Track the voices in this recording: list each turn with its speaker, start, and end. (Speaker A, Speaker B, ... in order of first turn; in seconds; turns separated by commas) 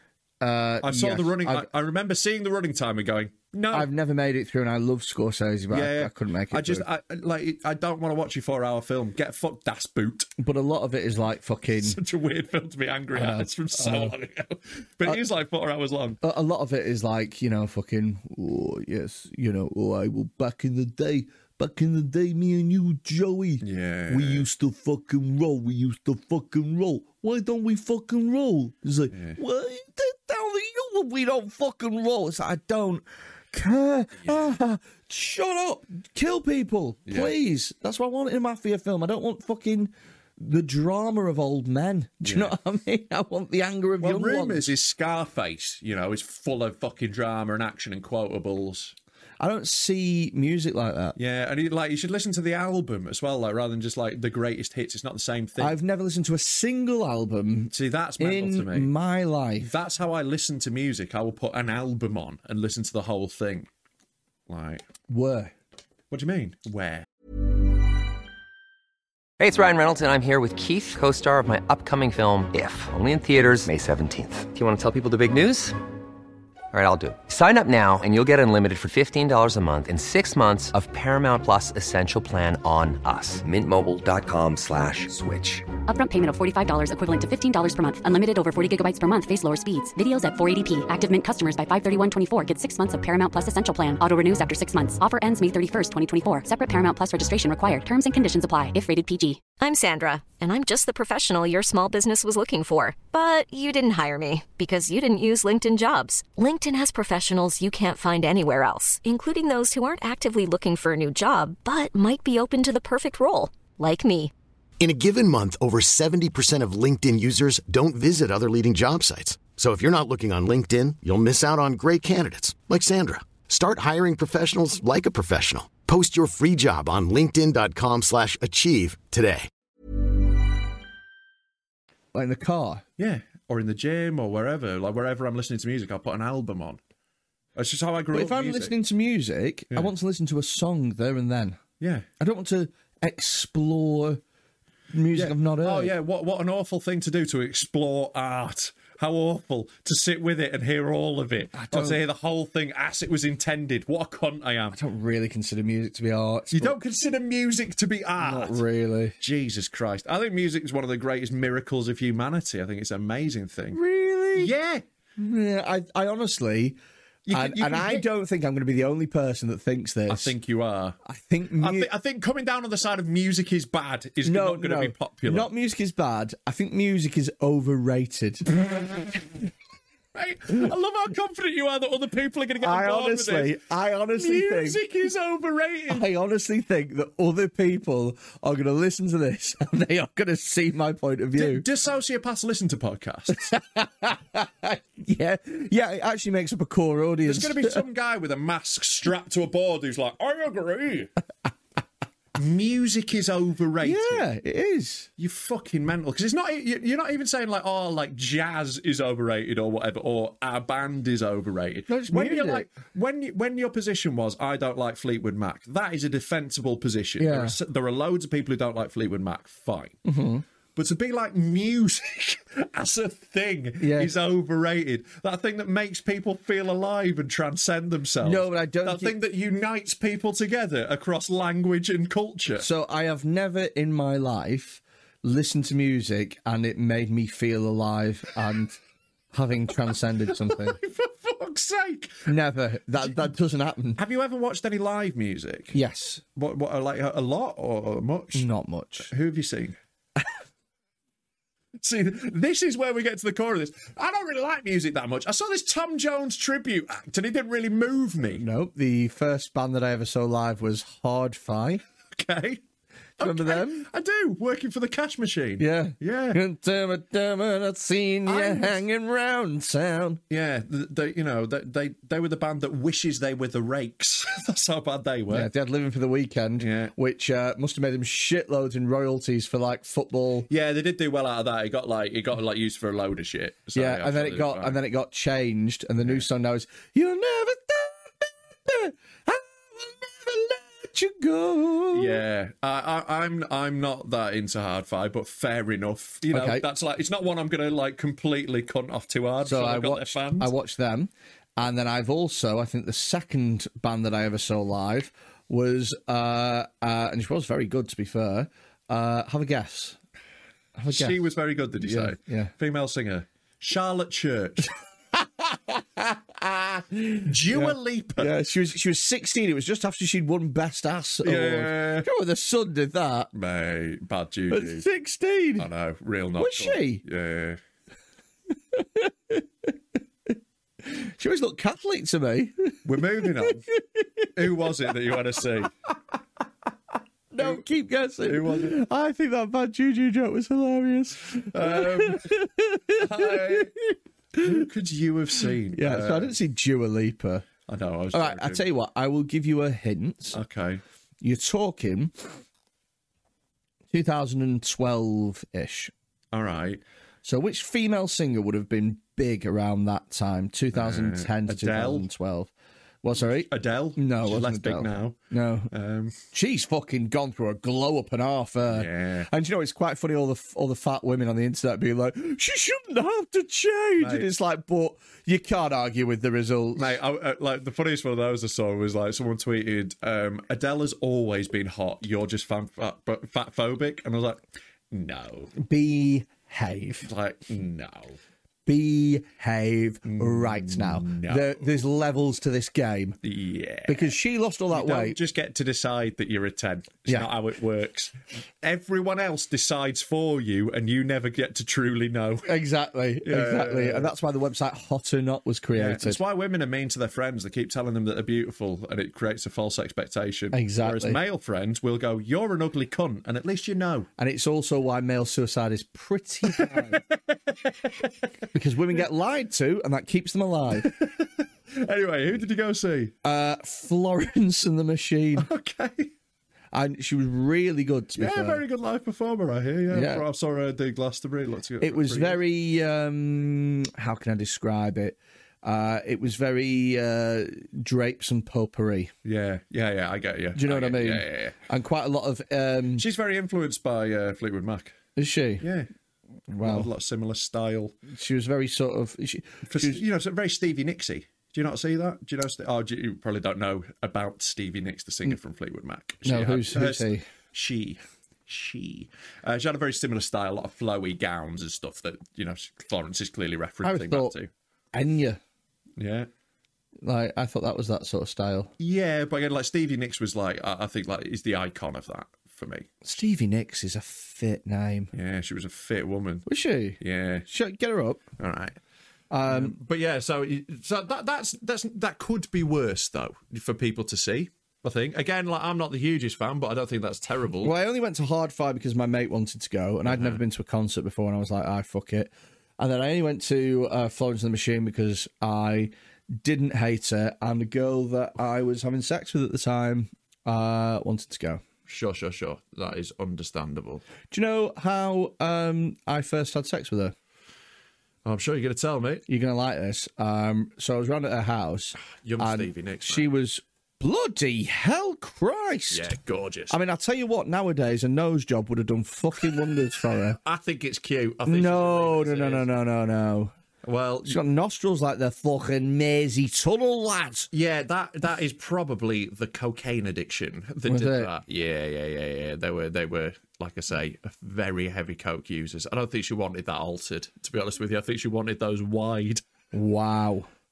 Speaker A: 0.4-1.7, Speaker B: 0.8-3.9, Speaker A: 3.7-6.8, Speaker B: 5.7-10.3, Speaker A: 10.4-12.0, Speaker B: 11.8-16.2, Speaker A: 13.1-14.1, Speaker A: 16.2-44.7, Speaker B: 23.6-24.5, Speaker B: 29.1-29.4, Speaker B: 37.1-37.3, Speaker B: 42.2-42.5, Speaker B: 44.0-48.9, Speaker A: 49.4-51.1, Speaker B: 51.2-55.8, Speaker A: 55.6-59.7, Speaker B: 57.7-58.9, Speaker B: 59.6-63.7, Speaker B: 64.5-64.8, Speaker A: 65.1-65.5, Speaker B: 66.1-67.0, Speaker C: 69.4-75.8, Speaker C: 76.7-85.6, Speaker D: 85.8-99.4, Speaker E: 99.6-114.3, Speaker F: 114.8-129.5, Speaker A: 132.1-132.8, Speaker B: 133.0-136.8, Speaker B: 137.6-138.7, Speaker A: 138.1-141.6, Speaker B: 141.8-142.1, Speaker A: 142.2-144.2, Speaker A: 144.9-145.9, Speaker B: 145.1-154.8, Speaker A: 151.5-152.0, Speaker A: 154.7-156.8, Speaker B: 156.5-158.6, Speaker A: 158.2-159.1, Speaker B: 159.2-163.8, Speaker A: 163.7-164.5, Speaker B: 164.3-164.8, Speaker A: 165.2-166.8, Speaker B: 167.2-168.0, Speaker A: 167.3-170.3, Speaker B: 170.1-171.0, Speaker A: 171.1-171.9, Speaker B: 171.6-175.5, Speaker A: 174.2-178.5, Speaker B: 180.1-183.6, Speaker A: 182.6-184.8, Speaker B: 184.1-186.0, Speaker A: 185.9-191.7, Speaker B: 191.3-193.4, Speaker A: 193.3-197.8, Speaker B: 197.2-201.1, Speaker B: 202.3-204.2, Speaker A: 203.8-205.1, Speaker B: 205.2-220.0, Speaker A: 211.9-212.7, Speaker A: 217.2-217.6, Speaker A: 220.0-220.4, Speaker B: 220.8-232.7, Speaker A: 223.8-224.1, Speaker A: 228.2-229.2, Speaker A: 232.6-238.8, Speaker A: 239.3-240.8, Speaker B: 240.3-242.2, Speaker A: 242.2-244.0, Speaker B: 244.0-245.8, Speaker A: 245.7-246.2, Speaker B: 246.3-248.4, Speaker A: 248.3-249.1, Speaker B: 249.0-249.8, Speaker B: 251.8-258.4, Speaker A: 258.4-261.8, Speaker B: 262.1-262.6, Speaker A: 263.2-263.9, Speaker B: 263.2-266.4, Speaker A: 265.6-270.2, Speaker B: 268.2-268.8, Speaker B: 270.3-275.5, Speaker A: 275.3-280.5, Speaker B: 276.6-276.9, Speaker B: 280.5-284.8, Speaker A: 283.7-292.2, Speaker B: 291.9-300.5, Speaker A: 296.3-296.6, Speaker A: 299.4-310.0, Speaker A: 310.8-311.2, Speaker B: 310.9-314.7, Speaker A: 311.8-312.5, Speaker A: 315.1-323.3, Speaker B: 317.2-318.3, Speaker B: 321.2-322.1, Speaker B: 323.3-324.9, Speaker A: 324.5-325.7, Speaker B: 325.6-327.6, Speaker A: 326.4-327.0, Speaker A: 328.7-329.7, Speaker A: 330.8-334.7, Speaker B: 332.8-333.6, Speaker B: 334.3-335.7, Speaker A: 337.3-344.6, Speaker B: 337.4-337.6, Speaker B: 338.2-338.8, Speaker B: 341.5-342.3, Speaker B: 342.9-343.7, Speaker B: 344.4-346.4, Speaker A: 345.7-347.4, Speaker B: 347.7-348.6, Speaker A: 348.1-350.4, Speaker B: 350.3-350.8, Speaker A: 351.2-352.1, Speaker A: 353.9-355.9, Speaker B: 356.3-356.8, Speaker A: 357.2-362.5, Speaker B: 360.7-362.1, Speaker A: 363.0-365.7, Speaker B: 363.5-365.2, Speaker B: 365.7-366.2, Speaker A: 366.3-377.0, Speaker B: 368.7-369.3, Speaker B: 374.0-374.3, Speaker B: 376.8-385.5, Speaker A: 385.6-387.1, Speaker B: 387.0-388.2, Speaker A: 388.6-393.2, Speaker B: 390.0-391.6, Speaker B: 393.2-394.1, Speaker A: 393.9-395.2, Speaker B: 394.7-402.5, Speaker A: 402.4-406.2, Speaker B: 403.2-404.1, Speaker B: 405.8-414.1, Speaker A: 410.5-411.2, Speaker A: 414.2-417.0, Speaker B: 416.5-417.1, Speaker B: 417.8-418.1, Speaker A: 418.5-420.9, Speaker B: 420.8-423.1, Speaker A: 423.2-425.5, Speaker B: 425.4-426.1, Speaker A: 426.7-428.6, Speaker B: 428.2-432.4, Speaker A: 429.9-430.2, Speaker A: 431.8-439.1, Speaker B: 439.2-441.6, Speaker A: 440.6-443.1, Speaker B: 443.0-444.9, Speaker A: 445.2-445.7, Speaker B: 445.6-445.9, Speaker A: 446.5-446.9, Speaker B: 446.6-447.9, Speaker A: 448.1-450.0, Speaker B: 449.7-464.5, Speaker A: 456.2-457.2, Speaker A: 463.8-464.3, Speaker A: 464.9-465.4, Speaker B: 466.0-466.3, Speaker A: 467.0-468.7, Speaker B: 468.8-473.0, Speaker A: 473.0-475.1, Speaker B: 475.1-476.4, Speaker A: 476.5-478.2, Speaker B: 477.0-477.4, Speaker B: 478.4-478.8, Speaker A: 479.3-479.8, Speaker B: 479.4-487.7, Speaker A: 487.6-501.6, Speaker B: 490.0-490.4, Speaker B: 501.9-504.0, Speaker A: 504.3-507.1, Speaker B: 508.2-509.2, Speaker A: 509.3-516.1, Speaker B: 512.1-513.3, Speaker B: 515.9-516.8, Speaker A: 516.7-520.4, Speaker B: 520.4-522.7, Speaker A: 521.5-523.5, Speaker B: 523.8-524.4, Speaker A: 524.2-527.5, Speaker B: 527.5-539.4, Speaker A: 530.9-531.3, Speaker A: 539.7-540.5